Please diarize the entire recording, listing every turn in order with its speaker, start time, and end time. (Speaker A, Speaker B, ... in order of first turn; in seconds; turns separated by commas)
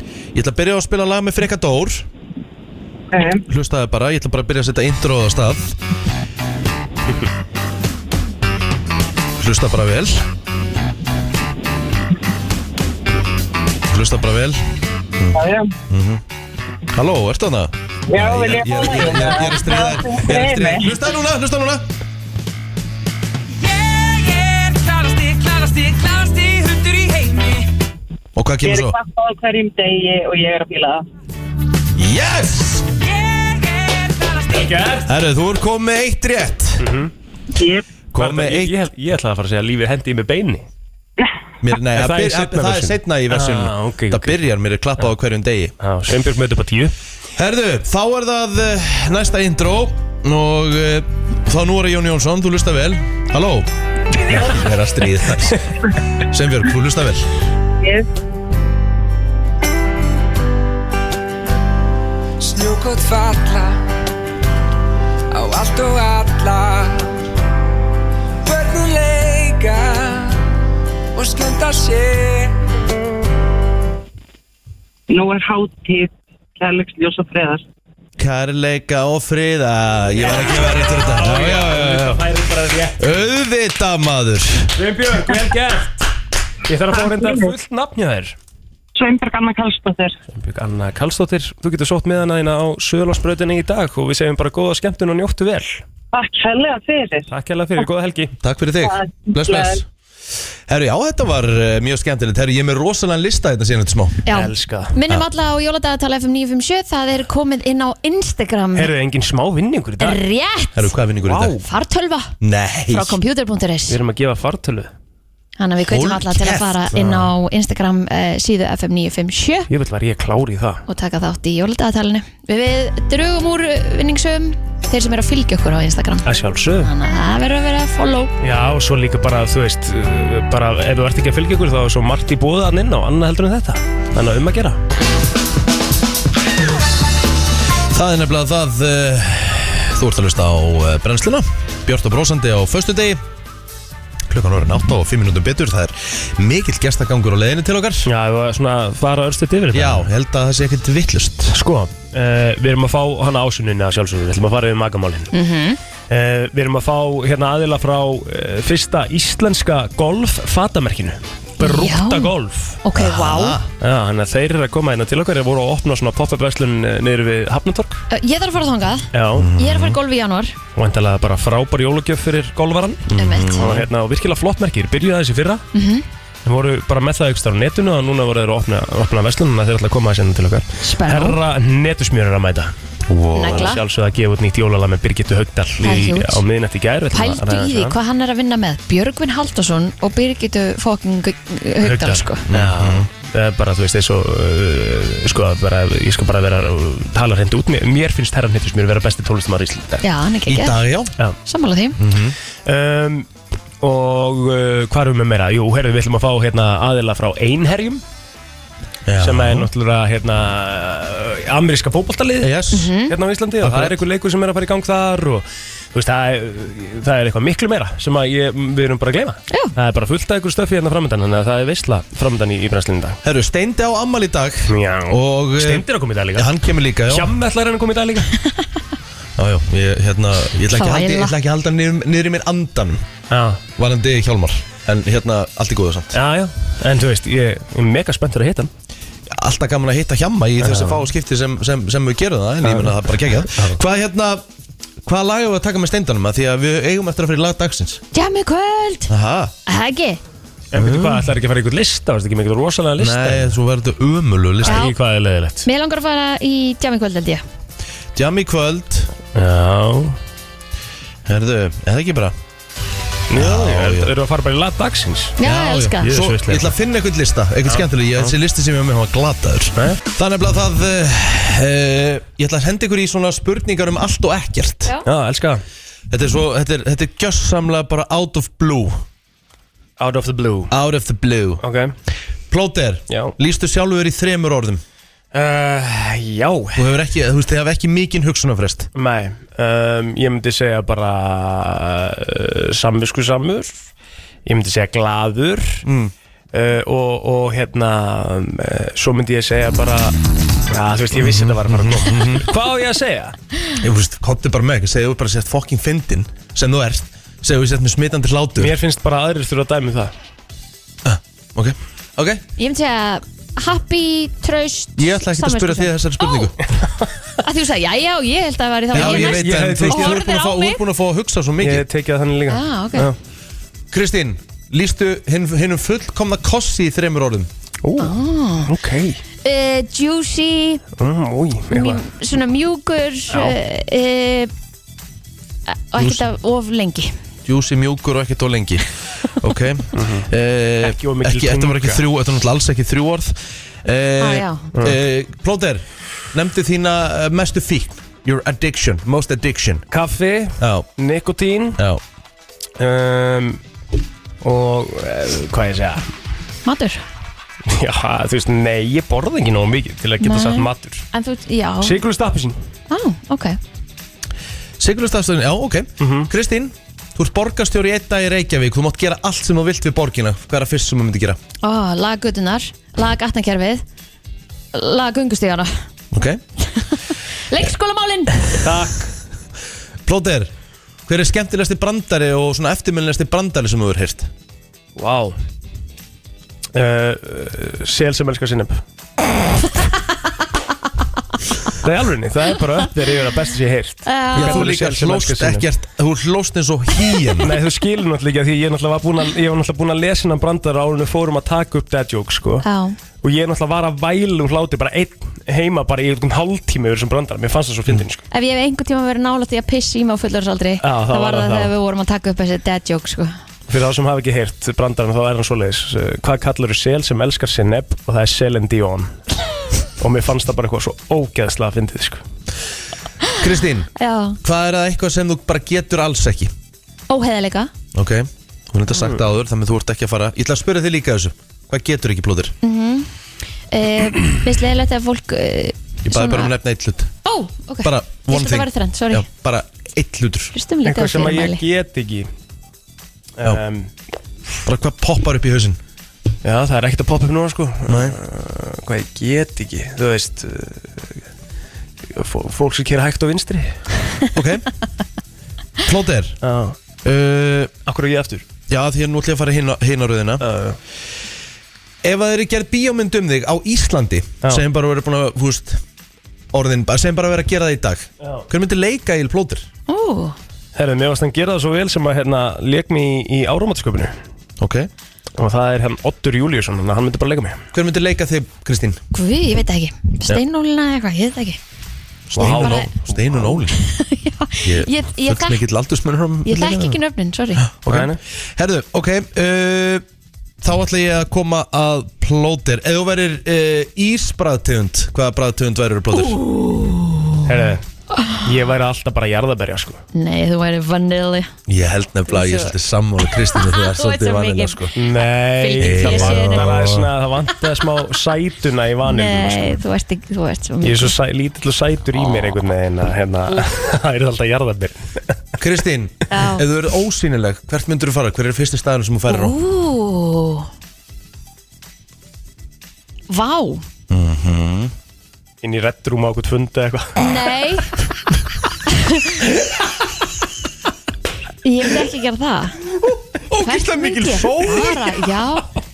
Speaker A: 0.3-2.1, Speaker B: 3.1-3.4, Speaker A: 3.5-5.7, Speaker A: 9.4-10.2, Speaker A: 13.9-14.6, Speaker A: 15.2-16.2, Speaker B: 15.3-15.7, Speaker A: 16.9-21.9, Speaker B: 18.1-20.9, Speaker C: 23.5-27.7, Speaker A: 28.4-29.0, Speaker B: 28.6-31.1, Speaker A: 32.0-32.9, Speaker C: 32.9-35.0, Speaker D: 34.5-35.0, Speaker A: 35.1-36.9, Speaker D: 36.8-37.1, Speaker B: 37.6-37.9, Speaker A: 38.1-38.8, Speaker D: 38.2-40.7, Speaker A: 41.6-45.8, Speaker D: 41.9-44.4, Speaker D: 45.8-47.0, Speaker A: 47.4-53.7, Speaker A: 54.3-55.6, Speaker A: 56.3-57.3, Speaker B: 57.8-58.1, Speaker C: 62.4-63.8, Speaker C: 65.3-67.1, Speaker C: 68.4-70.4, Speaker C: 71.1-72.6, Speaker B: 75.1-77.6, Speaker A: 78.2-82.2, Speaker D: 80.2-83.3, Speaker A: 83.0-84.8, Speaker D: 84.8-86.1, Speaker D: 86.7-88.4, Speaker B: 86.9-87.5, Speaker B: 89.0-90.2, Speaker D: 90.3-95.8, Speaker B: 96.1-97.3, Speaker D: 97.3-98.3, Speaker A: 98.4-99.8, Speaker B: 98.8-99.8, Speaker A: 100.7-104.2, Speaker E: 104.3-108.9, Speaker D: 104.3-104.9, Speaker D: 108.8-110.2, Speaker E: 110.0-111.0, Speaker A: 110.8-111.6, Speaker D: 111.2-111.6, Speaker E: 111.6-112.4, Speaker A: 112.4-113.2, Speaker E: 112.9-114.0, Speaker D: 113.9-114.9, Speaker E: 115.6-119.7, Speaker A: 115.8-117.1, Speaker D: 117.0-117.3, Speaker D: 119.7-120.8, Speaker E: 120.9-128.3, Speaker D: 126.2-126.9, Speaker D: 128.4-134.8, Speaker A: 137.9-143.2, Speaker A: 144.3-148.1, Speaker D: 148.1-150.1, Speaker A: 149.7-151.6, Speaker D: 151.5-155.3, Speaker E: 155.3-155.8, Speaker D: 156.1-162.8, Speaker E: 161.6-163.6, Speaker A: 162.9-163.7, Speaker D: 163.8-168.0, Speaker E: 168.1-170.6, Speaker D: 169.1-169.5, Speaker A: 169.3-170.0, Speaker D: 170.8-175.6, Speaker A: 173.1-173.9, Speaker E: 173.1-173.6, Speaker E: 175.7-176.1, Speaker D: 176.4-182.7, Speaker E: 180.8-181.4, Speaker A: 183.1-183.7, Speaker E: 183.3-183.8, Speaker D: 183.4-187.9, Speaker E: 185.8-186.4, Speaker E: 187.1-192.4, Speaker D: 191.8-200.0, Speaker A: 192.5-193.1, Speaker E: 200.0-200.8, Speaker A: 200.5-201.1, Speaker E: 201.5-202.0, Speaker A: 202.0-202.4, Speaker D: 202.6-203.3, Speaker D: 203.8-208.0, Speaker A: 209.1-209.7, Speaker D: 209.2-223.2, Speaker A: 212.4-212.9, Speaker E: 212.7-213.1, Speaker A: 213.6-214.0, Speaker A: 223.2-227.3, Speaker D: 224.7-228.3, Speaker A: 229.4-233.0, Speaker E: 230.7-231.3, Speaker D: 233.3-233.6, Speaker A: 233.8-236.2, Speaker D: 236.1-238.7, Speaker A: 239.3-244.4, Speaker D: 240.6-241.1, Speaker D: 242.6-242.9, Speaker D: 243.5-243.8, Speaker A: 245.0-248.0, Speaker E: 248.1-249.1, Speaker A: 249.1-249.5, Speaker E: 249.7-250.2, Speaker D: 250.7-253.6, Speaker A: 250.8-251.3, Speaker A: 253.0-254.9, Speaker D: 254.6-255.7, Speaker E: 254.7-254.9, Speaker E: 255.6-257.4, Speaker A: 258.1-259.1, Speaker D: 259.4-260.2, Speaker A: 261.3-262.4, Speaker D: 263.3-265.4, Speaker A: 263.3-264.1, Speaker E: 265.4-266.1, Speaker A: 265.4-274.9, Speaker D: 266.0-266.7, Speaker D: 267.7-268.3, Speaker D: 275.1-275.6, Speaker A: 276.1-279.0, Speaker D: 280.0-280.7, Speaker A: 280.7-281.6, Speaker D: 281.6-281.9, Speaker A: 282.5-284.8, Speaker D: 285.3-286.9, Speaker A: 286.8-288.9, Speaker D: 288.9-293.8, Speaker D: 294.5-295.9, Speaker A: 295.8-296.1, Speaker D: 296.5-300.2, Speaker D: 300.7-303.4, Speaker A: 301.1-302.5, Speaker A: 303.8-308.8, Speaker D: 308.6-310.1, Speaker A: 311.1-312.4, Speaker E: 312.6-316.5, Speaker A: 315.0-316.6, Speaker E: 317.4-320.8, Speaker A: 318.9-321.9, Speaker D: 318.9-320.2, Speaker D: 321.6-323.2, Speaker E: 322.5-323.1, Speaker A: 323.9-327.5, Speaker D: 327.8-329.2, Speaker E: 328.0-328.7, Speaker E: 329.4-330.8, Speaker D: 331.0-332.0, Speaker E: 331.7-334.5, Speaker D: 333.3-333.6, Speaker E: 335.7-337.1, Speaker A: 337.4-349.9, Speaker D: 339.9-340.3, Speaker D: 340.8-342.0, Speaker E: 344.2-344.7, Speaker D: 349.9-351.8, Speaker A: 350.6-350.9, Speaker A: 351.8-352.0, Speaker D: 352.8-353.6, Speaker D: 354.4-356.1, Speaker E: 356.6-357.0, Speaker D: 357.7-361.1, Speaker E: 360.2-362.0, Speaker D: 361.8-362.6, Speaker E: 362.9-363.6, Speaker A: 364.8-371.4, Speaker D: 366.0-366.3, Speaker E: 371.6-373.8, Speaker E: 374.7-375.7, Speaker A: 376.1-376.4, Speaker E: 377.5-378.4, Speaker D: 378.6-379.1, Speaker A: 380.1-380.5, Speaker A: 381.1-384.3, Speaker D: 385.0-385.4, Speaker D: 386.7-388.8, Speaker D: 391.8-395.7, Speaker E: 394.1-394.7, Speaker A: 394.4-397.6, Speaker D: 397.4-402.7, Speaker E: 402.6-403.0, Speaker D: 403.2-408.2, Speaker E: 408.3-413.4, Speaker D: 410.8-411.7, Speaker D: 413.7-419.1, Speaker D: 420.0-422.2, Speaker A: 423.4-423.9, Speaker E: 424.0-424.4, Speaker A: 424.4-426.5, Speaker E: 427.1-427.7, Speaker A: 427.9-432.5, Speaker D: 428.9-429.2, Speaker E: 432.6-433.1, Speaker E: 433.7-436.5, Speaker A: 436.1-437.1, Speaker E: 437.2-439.3, Speaker A: 437.8-440.5, Speaker E: 440.5-441.6, Speaker D: 440.9-442.3, Speaker D: 443.4-443.9, Speaker A: 444.6-445.8, Speaker D: 446.4-451.1, Speaker A: 447.9-448.2, Speaker D: 452.1-453.9, Speaker A: 454.3-454.7, Speaker A: 455.8-456.4, Speaker D: 456.4-456.8, Speaker A: 457.0-457.7, Speaker D: 457.9-458.4, Speaker A: 458.7-460.4, Speaker D: 460.4-460.8, Speaker A: 462.0-465.8, Speaker A: 466.5-469.7, Speaker E: 469.9-470.4, Speaker D: 470.8-474.1, Speaker A: 474.6-474.9, Speaker D: 475.4-477.6, Speaker A: 477.7-479.0, Speaker E: 479.1-481.6, Speaker A: 482.3-483.8, Speaker D: 482.4-483.0, Speaker E: 482.4-485.7, Speaker A: 484.6-487.0, Speaker E: 486.4-487.7, Speaker A: 487.6-490.0, Speaker D: 487.9-488.2, Speaker A: 490.6-496.4, Speaker E: 496.1-497.5, Speaker D: 497.4-497.8, Speaker E: 498.2-498.4, Speaker D: 498.4-500.0, Speaker E: 500.1-501.5, Speaker A: 501.7-504.9, Speaker E: 502.3-502.7, Speaker E: 503.3-506.8, Speaker D: 505.0-509.8, Speaker A: 505.8-507.1, Speaker E: 509.1-511.1, Speaker D: 510.8-515.3, Speaker A: 515.6-519.5, Speaker E: 516.3-516.6, Speaker E: 519.3-520.7, Speaker E: 523.3-523.9, Speaker A: 524.1-524.9, Speaker D: 525.6-527.2, Speaker E: 527.2-527.9, Speaker E: 528.9-529.4, Speaker E: 531.6-532.9, Speaker A: 533.5-535.0, Speaker E: 533.6-535.7